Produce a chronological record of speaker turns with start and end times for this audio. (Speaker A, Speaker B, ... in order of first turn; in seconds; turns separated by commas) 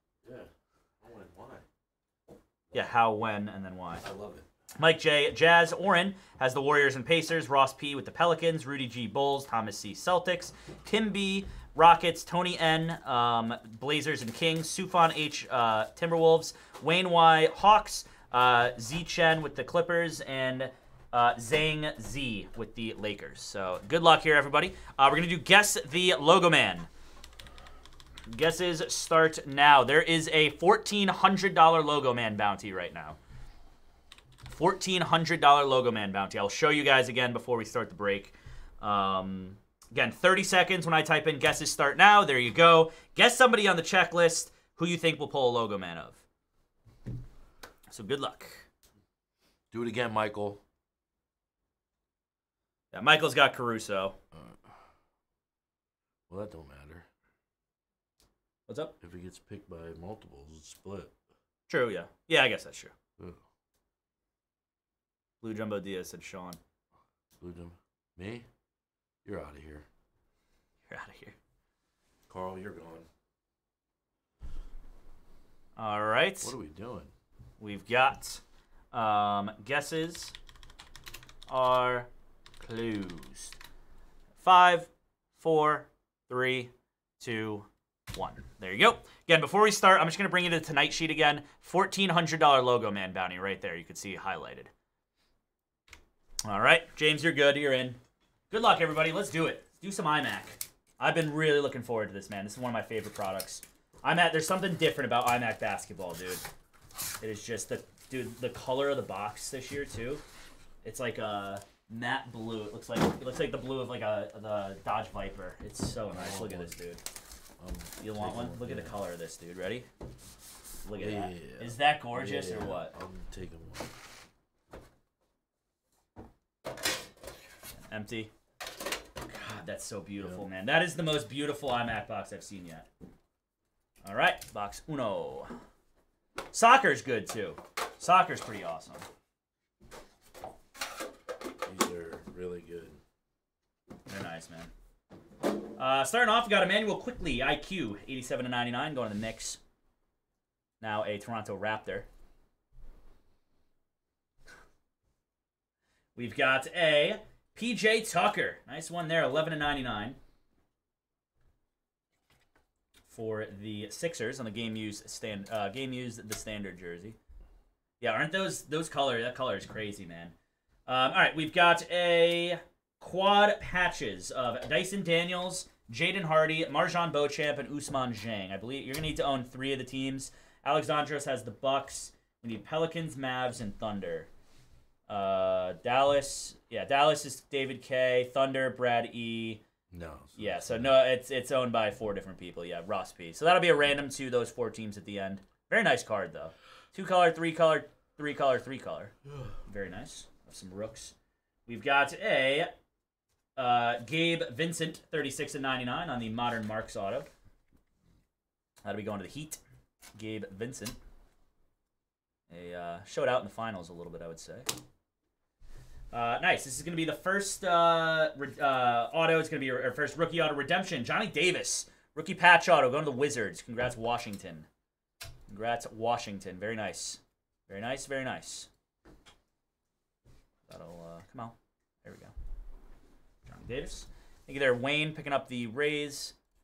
Speaker A: 0.2-0.5, Speaker A: 1.0-1.6, Speaker B: 2.7-4.0, Speaker A: 4.0-4.5, Speaker B: 4.8-26.9, Speaker B: 28.3-33.2, Speaker B: 34.5-46.2, Speaker B: 47.9-48.7, Speaker A: 49.7-50.6, Speaker B: 52.9-54.1, Speaker A: 56.3-57.0, Speaker B: 58.7-58.9, Speaker A: 59.0-61.1, Speaker B: 61.7-62.9, Speaker B: 65.4-66.6, Speaker A: 67.4-68.5, Speaker A: 69.2-69.8, Speaker B: 70.9-71.3, Speaker A: 72.3-73.1, Speaker B: 75.8-76.5, Speaker A: 76.4-77.1, Speaker B: 77.6-80.3, Speaker B: 81.5-82.1, Speaker B: 82.6-83.6, Speaker B: 84.4-94.7, Speaker B: 96.4-98.0, Speaker B: 98.5-106.4, Speaker B: 107.2-110.2, Speaker B: 110.8-117.0, Speaker A: 116.1-116.8, Speaker A: 117.6-119.0, Speaker B: 118.0-119.9, Speaker B: 120.8-122.9, Speaker A: 121.0-123.9, Speaker B: 127.8-128.3, Speaker B: 129.3-132.9, Speaker B: 134.0-135.5, Speaker B: 136.5-139.0, Speaker A: 141.6-143.0, Speaker B: 144.1-144.7, Speaker B: 145.8-149.6, Speaker B: 150.8-152.1, Speaker B: 156.1-160.2, Speaker B: 163.0-167.2, Speaker B: 168.0-170.3, Speaker B: 170.9-184.3, Speaker B: 185.1-189.6, Speaker A: 189.9-191.0, Speaker B: 190.4-199.1, Speaker B: 199.7-201.1, Speaker B: 201.7-202.7, Speaker B: 203.6-207.3, Speaker B: 208.8-209.6, Speaker B: 210.1-211.0, Speaker B: 212.5-214.7, Speaker B: 216.1-224.7, Speaker B: 225.5-228.7, Speaker B: 230.7-232.3, Speaker B: 233.4-236.3